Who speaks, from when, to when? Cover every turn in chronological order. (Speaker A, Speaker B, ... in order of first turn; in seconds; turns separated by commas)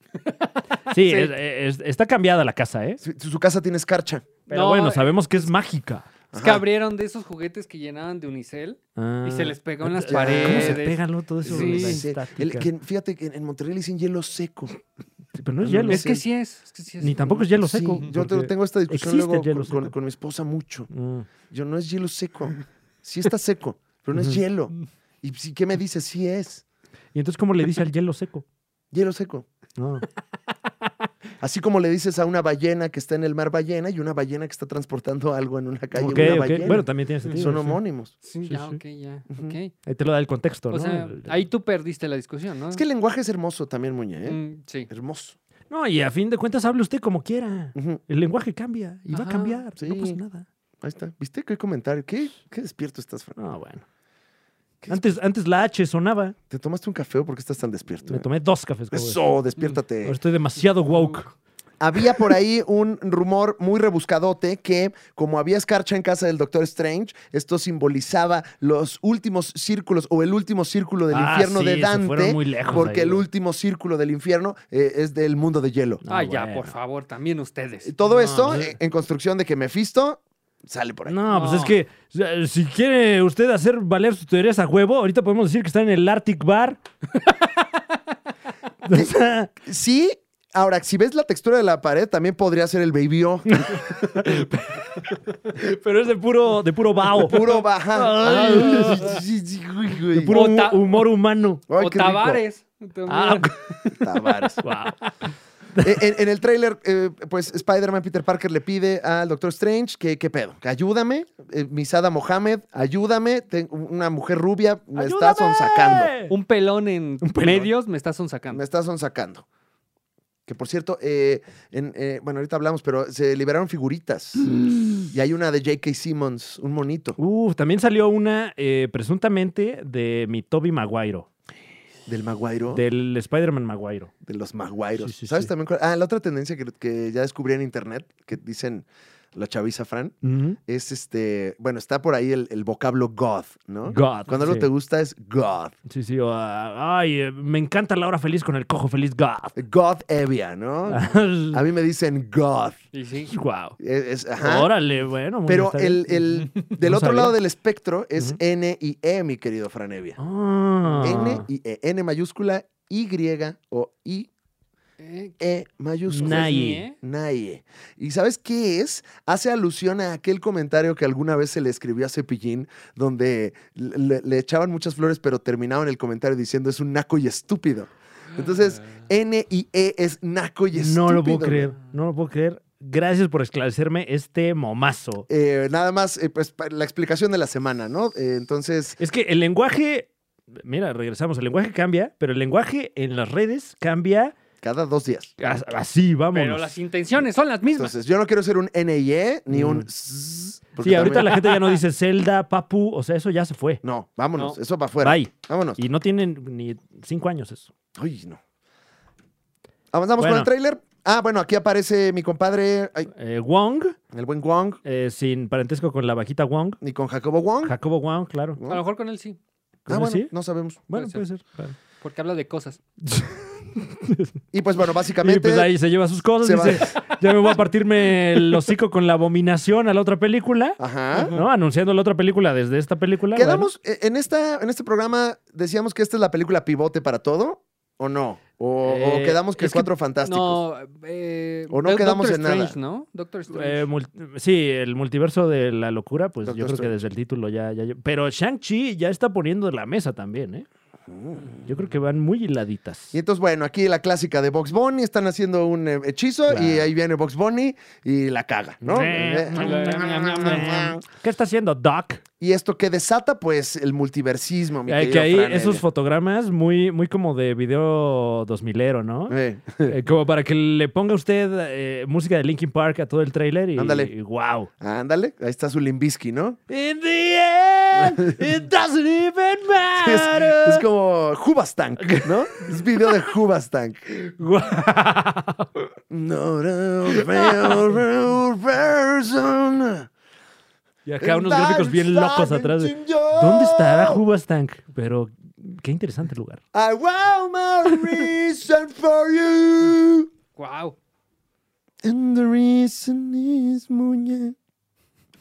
Speaker A: 0.3-1.3, Speaker B: 0.9-3.0, Speaker C: 3.0-4.3, Speaker B: 4.5-6.1, Speaker A: 4.5-5.2, Speaker C: 6.3-6.6, Speaker A: 6.3-12.0, Speaker B: 9.0-12.7, Speaker C: 10.1-10.8, Speaker C: 11.4-14.8, Speaker B: 15.3-16.2, Speaker C: 15.6-16.2, Speaker A: 15.9-17.4, Speaker B: 17.0-19.9, Speaker C: 17.3-20.9, Speaker B: 20.9-21.3, Speaker C: 21.5-26.6, Speaker B: 24.1-24.4, Speaker B: 27.1-28.4, Speaker C: 28.9-29.4, Speaker B: 29.8-30.1, Speaker C: 31.4-38.1, Speaker B: 35.9-37.8, Speaker A: 37.2-37.5, Speaker A: 38.2-39.7, Speaker B: 38.5-38.8, Speaker C: 39.3-39.6, Speaker B: 39.9-41.4, Speaker A: 40.7-42.8, Speaker C: 42.7-44.4, Speaker A: 44.3-44.9, Speaker C: 44.9-45.4, Speaker B: 45.7-50.5, Speaker A: 49.1-49.6, Speaker C: 49.8-50.2, Speaker C: 50.8-53.4, Speaker B: 53.4-53.8, Speaker C: 54.8-55.1, Speaker B: 54.9-56.4, Speaker C: 56.5-58.2, Speaker B: 58.1-59.2, Speaker C: 58.9-60.2, Speaker B: 60.0-61.3, Speaker C: 61.8-76.0, Speaker B: 71.1-73.2, Speaker B: 76.0-76.7, Speaker A: 76.1-78.0, Speaker C: 77.8-81.2, Speaker B: 78.0-78.7, Speaker B: 81.1-86.8, Speaker A: 81.3-81.8, Speaker B: 88.8-89.5, Speaker C: 88.9-93.8, Speaker B: 93.5-99.2, Speaker C: 97.2-100.4, Speaker B: 100.1-101.7, Speaker A: 100.3-100.9, Speaker C: 101.7-102.4, Speaker A: 101.8-103.5, Speaker B: 103.1-104.0, Speaker C: 104.0-104.6, Speaker B: 104.6-105.1, Speaker B: 105.8-106.0, Speaker C: 105.8-116.1, Speaker B: 114.9-116.3, Speaker A: 116.3-118.6, Speaker B: 117.2-117.7, Speaker C: 118.5-119.4, Speaker C: 120.5-124.5, Speaker B: 124.6-125.0, Speaker C: 125.1-127.2, Speaker B: 127.2-131.3, Speaker C: 132.1-132.8, Speaker B: 132.7-134.1, Speaker C: 134.2-145.7, Speaker B: 135.0-135.5, Speaker B: 140.2-140.6, Speaker B: 143.9-144.7, Speaker B: 145.9-149.6, Speaker C: 149.6-152.8, Speaker B: 150.9-151.6, Speaker A: 152.9-153.3, Speaker B: 153.3-153.8, Speaker C: 153.8-154.7, Speaker B: 154.4-157.3, Speaker C: 155.5-160.2, Speaker B: 160.2-161.4, Speaker C: 161.0-164.3, Speaker A: 165.0-165.4, Speaker C: 165.4-181.7, Speaker B: 166.1-166.9, Speaker A: 166.2-167.0, Speaker B: 180.7-185.3, Speaker C: 185.3-189.0, Speaker B: 189.0-194.3, Speaker C: 194.6-195.3, Speaker B: 195.4-196.7, Speaker A: 196.3-197.9, Speaker C: 197.8-201.6, Speaker B: 199.5-199.9, Speaker B: 200.8-203.8, Speaker C: 203.8-205.8, Speaker B: 205.0-207.7, Speaker C: 207.9-208.4, Speaker C: 209.9-213.1, Speaker B: 210.2-210.5, Speaker B: 213.1-213.9, Speaker C: 214.1-214.8, Speaker B: 214.8-216.8, Speaker C: 216.8-217.7, Speaker B: 217.6-218.6, Speaker C: 218.6-218.8, Speaker A: 218.7-219.4, Speaker B: 219.9-220.3, Speaker C: 219.9-220.8, Speaker B: 220.9-221.8, Speaker A: 220.9-221.2, Speaker A: 222.0-222.8, Speaker B: 223.0-224.3, Speaker C: 224.5-225.7, Speaker B: 225.2-230.8, Speaker C: 226.4-227.0, Speaker C: 230.8-231.3, Speaker A: 231.1-231.4, Speaker B: 231.3-233.7, Speaker C: 233.3-240.6, Speaker B: 238.8-239.9, Speaker A: 240.2-243.9, Speaker C: 241.7-242.7, Speaker B: 243.5-250.7, Speaker C: 246.4-246.9, Speaker C: 251.1-251.7, Speaker B: 251.6-253.1, Speaker C: 253.1-261.0, Speaker B: 256.5-256.9, Speaker B: 258.8-262.2, Speaker A: 259.6-260.6, Speaker C: 262.4-265.8, Speaker B: 264.9-274.7, Speaker C: 269.3-269.9, Speaker C: 273.8-274.1, Speaker C: 274.8-276.6, Speaker B: 276.7-280.9, Speaker C: 280.0-284.2, Speaker B: 282.0-283.2, Speaker B: 284.2-285.9, Speaker C: 286.1-290.1, Speaker B: 287.1-287.9, Speaker B: 291.1-296.6, Speaker C: 291.2-294.2, Speaker C: 296.7-300.3, Speaker A: 300.6-300.9, Speaker C: 302.0-304.6